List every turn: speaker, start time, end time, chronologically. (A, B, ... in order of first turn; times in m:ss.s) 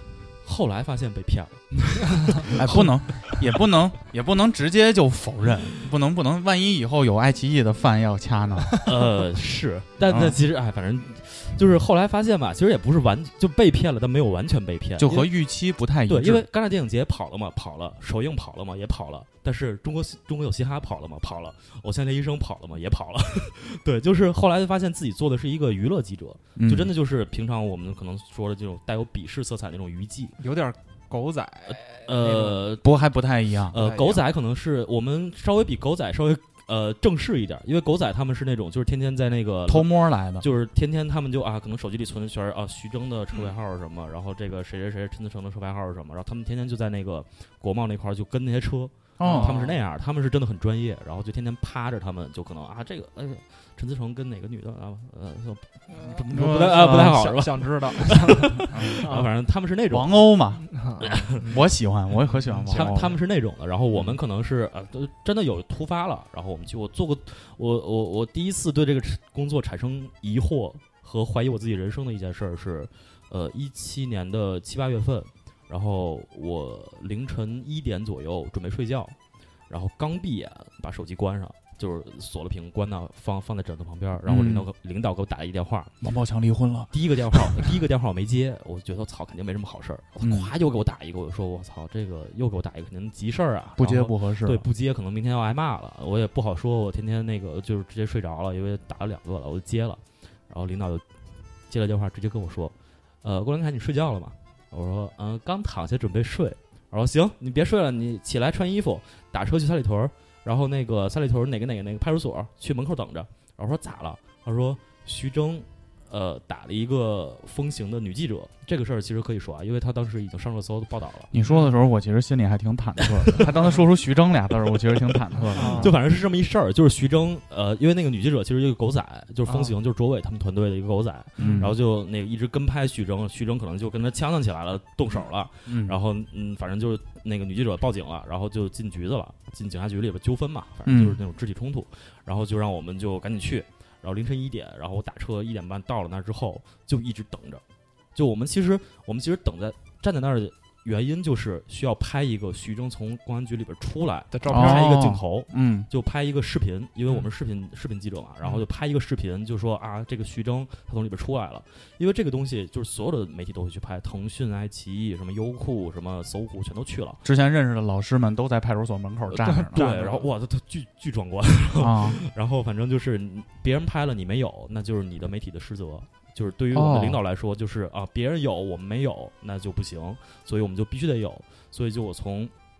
0:00.4-0:02.8 A
0:02.5-0:08.9 B
0:08.8-0:15.3 A
0:10.1-0:10.4 B
0:15.0-0:16.4 B
0:16.1-0:30.4 A
0:26.6-0:26.9 B
0:30.4-0:32.6 C
0:31.7-0:32.9 A
0:32.8-0:33.8 B
0:33.7-1:00.3 A
0:33.7-0:34.2 C
0:39.7-0:40.4 B
0:49.2-0:49.6 B
0:49.2-0:49.8 C
0:56.0-0:59.3 C
0:56.3-0:57.4 B
0:58.7-0:59.1 B
0:59.9-1:03.2 B
1:00.7-1:01.6 C
1:01.0-1:01.4 A
1:02.4-1:03.1 C
1:02.7-1:19.2 A
1:19.7-1:25.9 A
1:24.2-1:24.6 B
1:26.0-1:27.7 B
1:26.9-1:41.0 A
1:30.2-1:30.5 B
1:33.8-1:34.6 B
1:41.7-2:01.3 A
2:01.3-2:05.9 B
2:01.4-2:01.7 C
2:03.0-2:03.4 A
2:05.1-2:27.6 A
2:05.5-2:06.0 C
2:09.5-2:09.7 C
2:11.4-2:11.8 B
2:15.7-2:16.0 B
2:20.8-2:21.2 B
2:28.1-2:47.2 A
2:34.3-2:34.9 C
2:34.5-2:35.9 B
2:47.2-2:49.8 B
2:49.3-3:02.5 A
2:49.4-2:50.3 C
2:51.8-2:52.2 B
2:56.7-2:57.2 B